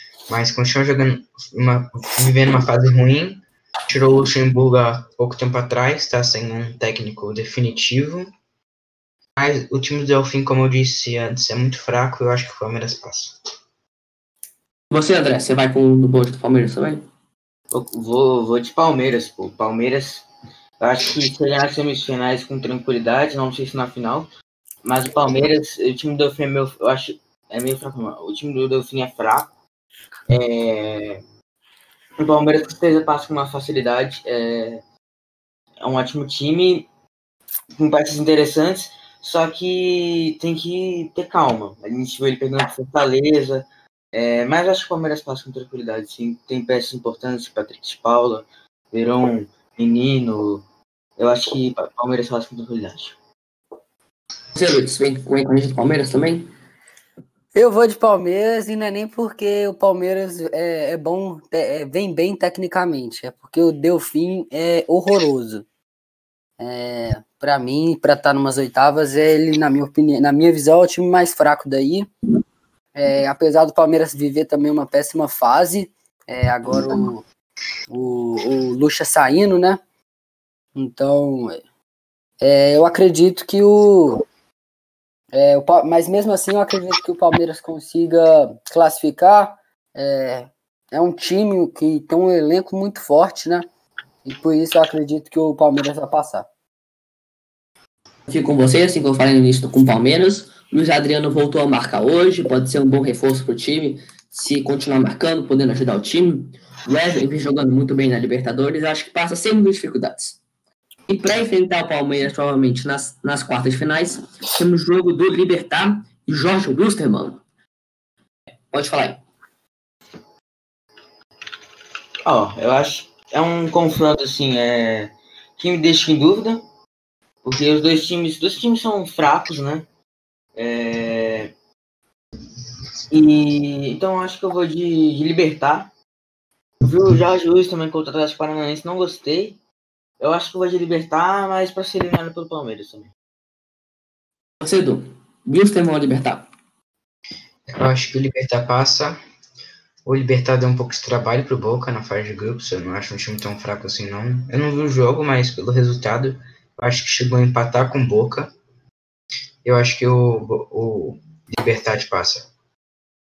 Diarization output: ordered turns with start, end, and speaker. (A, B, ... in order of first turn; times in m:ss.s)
0:00.3-0:08.3 A
0:09.4-0:13.4 A
0:14.9-0:17.0 B
0:17.7-0:20.3 C
0:20.8-0:24.3 C
0:24.8-0:29.5 C
0:30.3-0:31.2 C
0:32.2-0:34.8 C
0:35.8-0:36.9 C
0:37.8-0:50.6 C
0:51.2-0:53.2 C
0:54.5-0:56.5 B
0:57.5-1:05.6 D
1:06.6-1:12.1 D
1:12.9-1:17.2 D
1:17.9-1:19.8 D
1:20.8-1:21.6 D
1:22.4-1:24.2 D
1:25.3-1:33.6 D
1:34.2-1:36.4 D
1:38.3-1:50.4 B
1:51.1-1:57.4 B
1:58.7-1:59.2 B
2:02.2-2:06.6 C
2:07.4-2:09.9 C
2:10.5-2:11.5 C
2:13.1-2:15.9 C
2:16.8-2:19.6 C
2:20.2-2:23.1 C
2:24.6-2:26.5 B
2:27.7-2:29.2 A
2:30.0-2:38.5 A
2:39.6-2:42.5 A